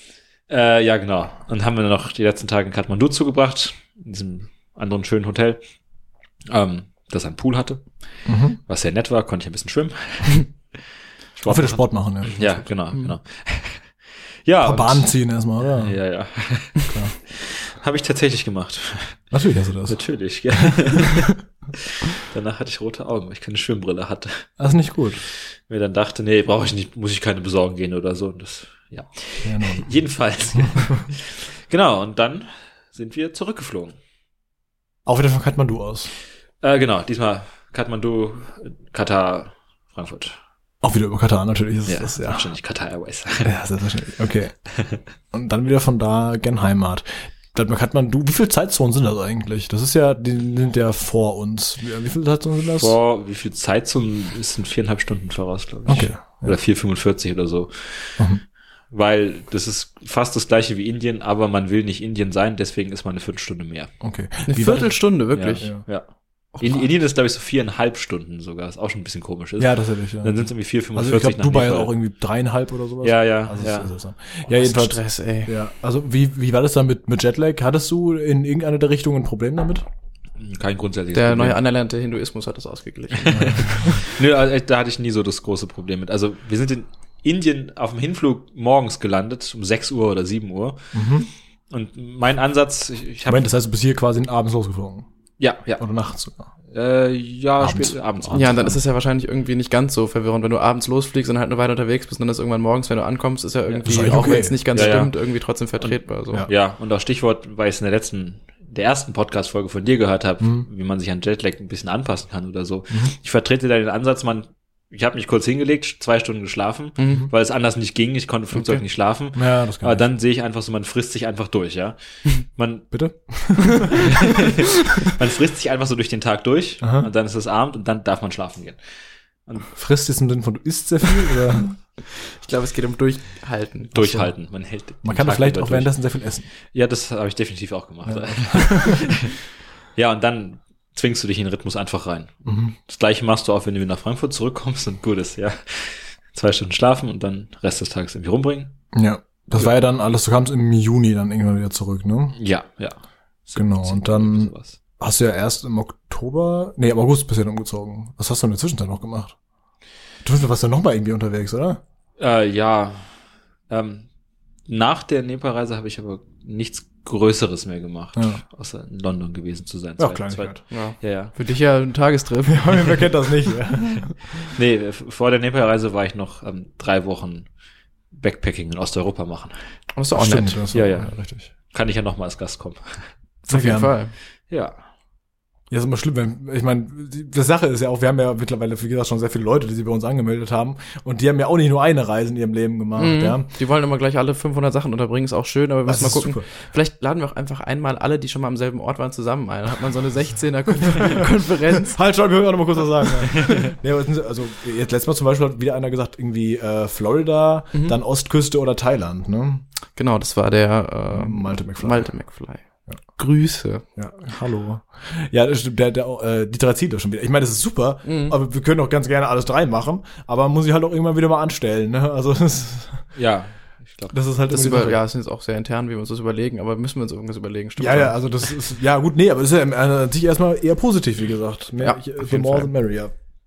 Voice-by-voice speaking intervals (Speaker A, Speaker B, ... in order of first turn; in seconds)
Speaker A: 0.5-5.6, 6.5-7.9, 8.7-10.8, 11.3-13.9, 14.4-15.1, 15.8-19.2, 19.9-24.5, 25.3-33.9, 36.6-40.4, 41.9-43.5, 52.8-58.2, 58.9-63.9, 65.3-66.0, 66.6-71.9, 73.0-73.9, 80.4-81.6, 83.1-90.8, 91.7-93.5, 95.4-95.8, 96.7-98.7, 103.7-105.1, 105.8-122.9, 123.9-128.8, 133.9-135.9, 136.7-139.4, 139.9-148.7, 152.4-154.8, 162.2-163.1, 163.7-164.1, 164.7-171.3, 174.5-177.5, 178.1-179.5, 180.7-181.1, 181.7-183.1, 184.5-184.8, 223.1-224.2
Speaker B: 8.2-8.6, 11.4-12.7, 14.6-15.9, 19.3-20.0, 24.6-25.2, 29.4-29.8, 30.6-31.0, 35.0-36.1, 40.8-42.5, 43.4-44.5, 45.3-53.0, 55.9-56.5, 64.0-65.0, 69.6-79.8, 83.3-83.9, 90.9-91.3, 93.3-95.1, 95.8-96.5, 97.6-98.8, 103.8-105.0, 110.4-110.7, 119.3-120.0, 122.9-124.2, 126.8-127.1, 129.7-131.8, 135.0-136.5, 138.1-139.1, 142.4-142.7, 148.9-152.3, 153.5-159.3, 160.2-161.8, 168.2-168.4, 170.0-170.6, 172.5-174.5, 180.1-181.5, 183.5-183.9, 185.7-193.5, 195.9-196.5, 201.0-201.3, 201.8-209.6, 211.1-212.1, 213.9-223.1, 224.1-225.0, 227.8-233.1
Speaker C: 64.5-65.7, 74.5-75.5, 81.1-84.0, 98.3-106.4, 117.0-117.3, 118.5-118.8, 132.3-134.2, 170.7-173.0, 179.9-180.6, 183.5-184.1, 193.0-202.0, 209.9-212.6, 213.2-213.8, 218.0-218.3, 224.5-228.2, 231.8-232.7